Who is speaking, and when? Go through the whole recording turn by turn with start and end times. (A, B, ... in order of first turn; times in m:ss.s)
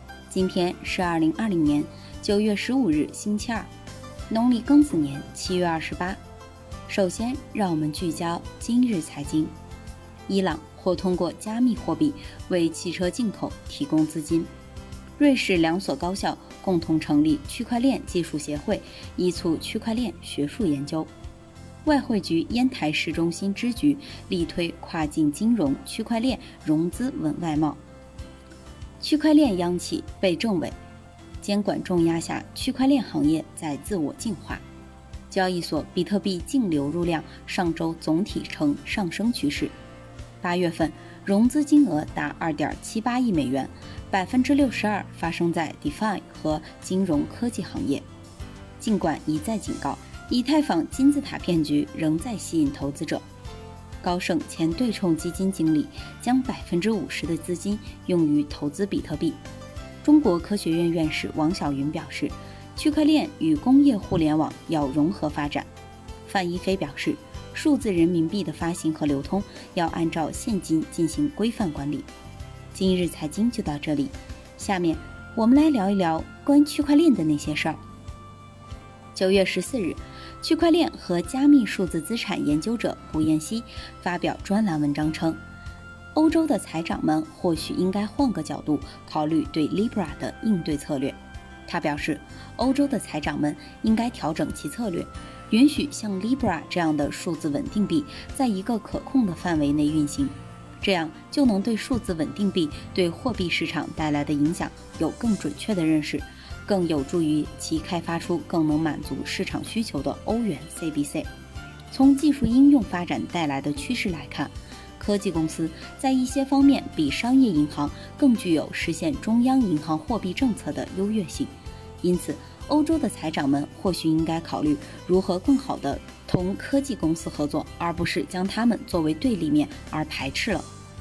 0:00.3-0:03.7 A
0:04.3-0:06.2 A
0:06.9-0:09.5 A
0:10.3-0:14.5 A
0:15.2-0:21.1 A
0:21.8-0:27.8 A
0:29.0-0:30.8 A
0:31.4-0:34.6 A
0:35.3-0:39.7 A
0:40.4-0:48.0 A
0:48.8-0:53.2 A
0:54.0-0:59.4 A
1:00.0-1:05.7 A
1:06.2-1:12.1 A
1:12.7-1:17.8 A
1:19.1-1:25.4 A
1:26.1-1:51.3 A
1:51.9-2:10.7 A